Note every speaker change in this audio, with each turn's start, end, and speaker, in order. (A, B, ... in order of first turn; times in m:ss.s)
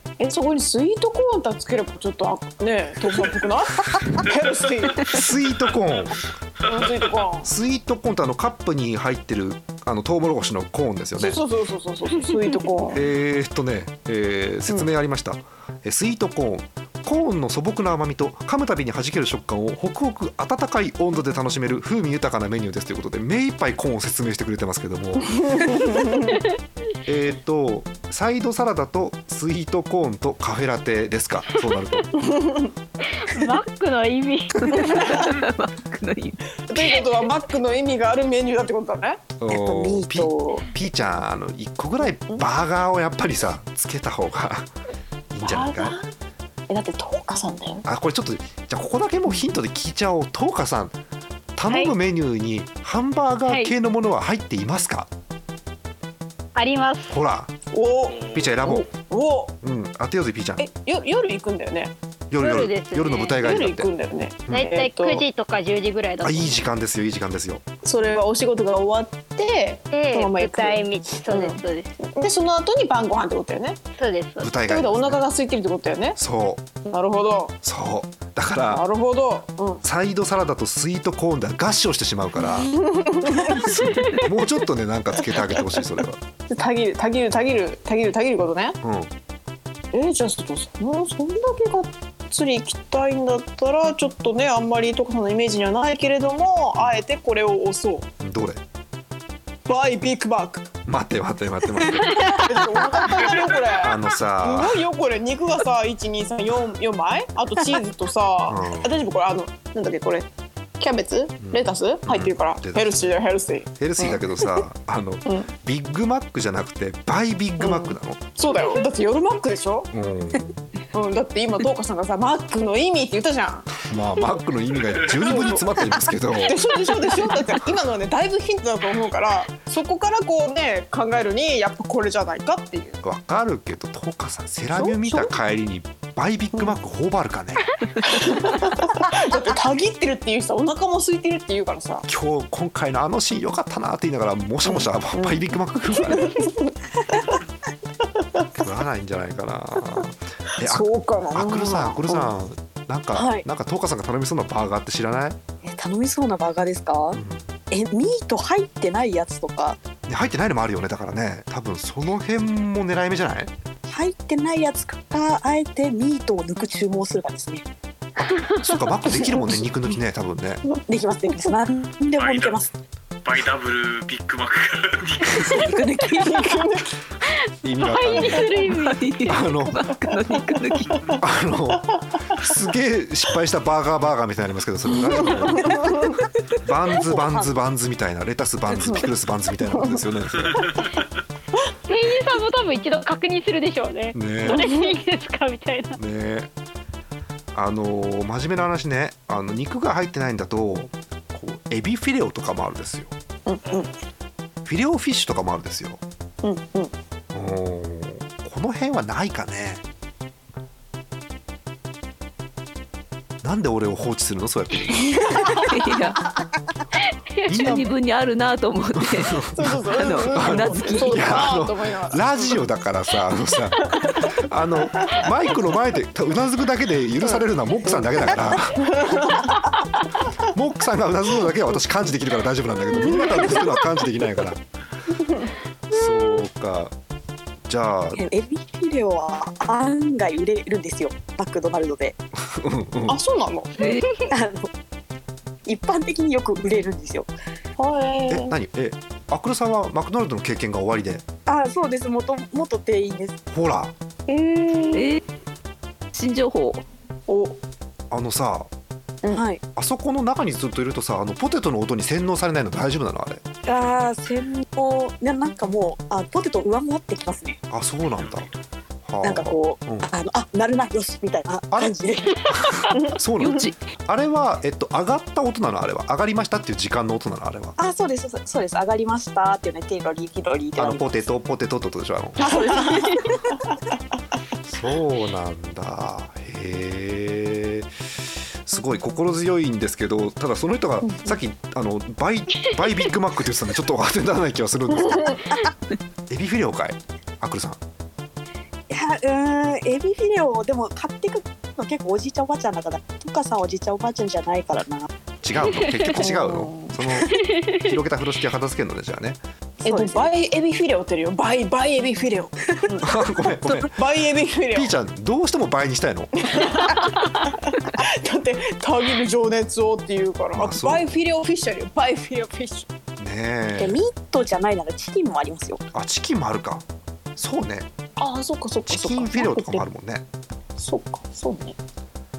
0:00.2-0:05.3 A
0:05.0-0:06.2 B
0:06.6-0:07.5 A
0:07.4-0:11.4 B
0:11.2-0:13.0 A
0:12.9-0:25.8 B
0:25.3-0:26.4 A
0:27.0-0:32.1 B
0:32.1-0:32.7 A
0:33.1-0:35.2 C
0:34.6-0:36.5 D
0:36.7-0:39.3 A
0:39.4-0:44.7 B
0:39.5-0:40.6 E
0:45.3-0:46.0 B
0:45.4-0:46.1 A
0:46.7-0:47.8 A
0:47.8-0:51.0 B
0:51.6-0:55.1 B
0:56.5-0:57.2 C
0:57.1-0:57.5 B
0:57.7-0:59.6 A
0:58.3-0:58.9 B
0:59.6-1:00.7 B
1:00.6-1:01.9 A
1:02.3-1:03.9 B
1:02.4-1:03.4 C
1:03.4-1:05.3 A
1:04.5-1:06.6 C
1:06.2-1:07.6 B
1:07.8-1:13.8 A
1:09.9-1:11.9 C
1:14.0-1:14.6 C
1:14.4-1:15.2 B
1:14.6-1:16.2 A
1:16.2-1:16.7 B
1:16.8-1:17.6 A
1:17.6-1:18.8 B
1:18.6-1:19.8 A
1:19.8-1:22.8 B
1:22.5-1:23.8 A
1:23.4-1:26.2 B
1:23.8-1:24.2 C
1:26.5-1:28.8 A
1:28.8-1:29.1 B
1:29.9-1:38.1 A
1:38.2-1:38.6 B
1:39.7-1:40.7 A
1:40.8-1:42.4 B
1:42.2-1:54.2 A
1:43.8-1:44.8 B
1:48.5-1:49.0 B
1:51.4-1:53.2 B
1:53.8-1:58.2 B
1:55.2-1:55.5 A
1:57.6-1:59.9 A
1:59.9-2:00.7 B
2:00.9-2:03.7 A
2:03.8-2:06.7 B
2:05.2-2:05.8 A
2:06.4-2:13.0 A
2:13.0-2:18.2 B
2:14.8-2:15.3 A
2:18.0-2:22.0 A
2:22.1-2:26.5 B
2:24.7-2:25.4 A
2:26.0-2:27.4 A
2:28.2-2:28.5 A
2:28.5-2:35.4 B
2:30.6-2:32.3 A
2:33.1-2:33.4 E
2:35.6-2:39.8 E
2:37.1-2:37.5 B
2:40.1-2:43.5 B
2:43.9-2:47.6 E
2:48.4-2:48.7 C
2:48.6-2:50.6 B
2:50.9-2:52.7 E
2:52.2-2:52.6 F
2:53.2-2:55.8 F
2:55.5-2:56.6 E
2:56.1-2:56.9 A
2:57.6-2:58.6 B
2:57.8-2:59.0 C
2:58.5-3:01.0 D
2:59.3-2:59.9 B
3:01.2-3:06.0 B
3:05.0-3:06.2 A
3:06.6-3:10.8 B
3:07.0-3:07.5 E
3:08.8-3:09.1 A
3:09.7-3:10.0 A
3:11.9-3:16.0 C
3:14.1-3:14.7 B
3:14.5-3:14.9 A
3:16.0-3:16.5 B
3:17.5-3:23.1 B
3:23.4-3:23.9 A
3:24.6-3:26.0 B
3:26.4-3:26.9 A
3:27.3-3:29.8 B
3:33.4-3:35.6 B
3:35.5-3:36.2 D
3:37.5-3:37.9 B
3:37.5-3:41.4 D
3:39.0-3:49.4 B
3:39.5-3:42.6 A
3:43.8-3:44.3 A
3:45.0-3:45.3 A
3:47.3-3:48.1 A
3:48.8-3:49.8 A
3:50.5-3:54.6 B
3:52.9-3:53.7 A
3:55.2-3:55.5 A
3:55.9-3:56.9 B
3:57.7-3:58.2 B
3:58.2-4:02.2 E
4:02.5-4:03.2 B
4:03.1-4:03.8 A
4:03.8-4:04.0 D
4:04.3-4:04.7 E
4:05.6-4:07.3 E
4:07.8-4:08.5 A
4:08.3-4:11.2 B
4:11.5-4:13.4 E
4:13.5-4:13.9 B
4:14.3-4:15.2 A
4:14.9-4:15.2 D
4:16.1-4:16.8 D
4:17.3-4:17.6 A
4:18.1-4:18.7 B
4:19.3-4:19.6 E
4:19.8-4:23.4 B
4:23.6-4:27.6 E
4:27.7-4:28.5 B
4:29.0-4:30.1 B
4:29.2-4:32.7 E
4:31.7-4:37.8 B
4:33.4-4:33.8 D
4:37.8-4:41.2 E
4:40.8-4:42.8 B
4:42.4-4:43.2 A
4:42.4-4:43.3 E
4:44.6-4:47.9 B
4:48.6-4:55.4 B
4:51.0-4:51.4 A
4:55.0-4:55.4 A
4:56.3-4:57.8 B
4:58.9-5:05.1 E
5:05.4-5:09.4 B
5:05.7-5:06.2 C
5:06.2-5:07.1 A
5:07.3-5:07.9 C
5:09.8-5:13.2 A
5:09.8-5:10.3 E
5:13.0-5:13.9 B
5:13.7-5:14.9 A
5:14.7-5:16.5 B
5:16.4-5:22.9 A
5:20.5-5:21.1 B
5:23.2-5:24.0 B
5:23.8-5:25.8 E
5:25.9-5:26.8 B
5:27.4-5:27.9 B
5:28.2-5:29.8 A
5:28.8-5:30.2 B
5:30.8-5:31.8 A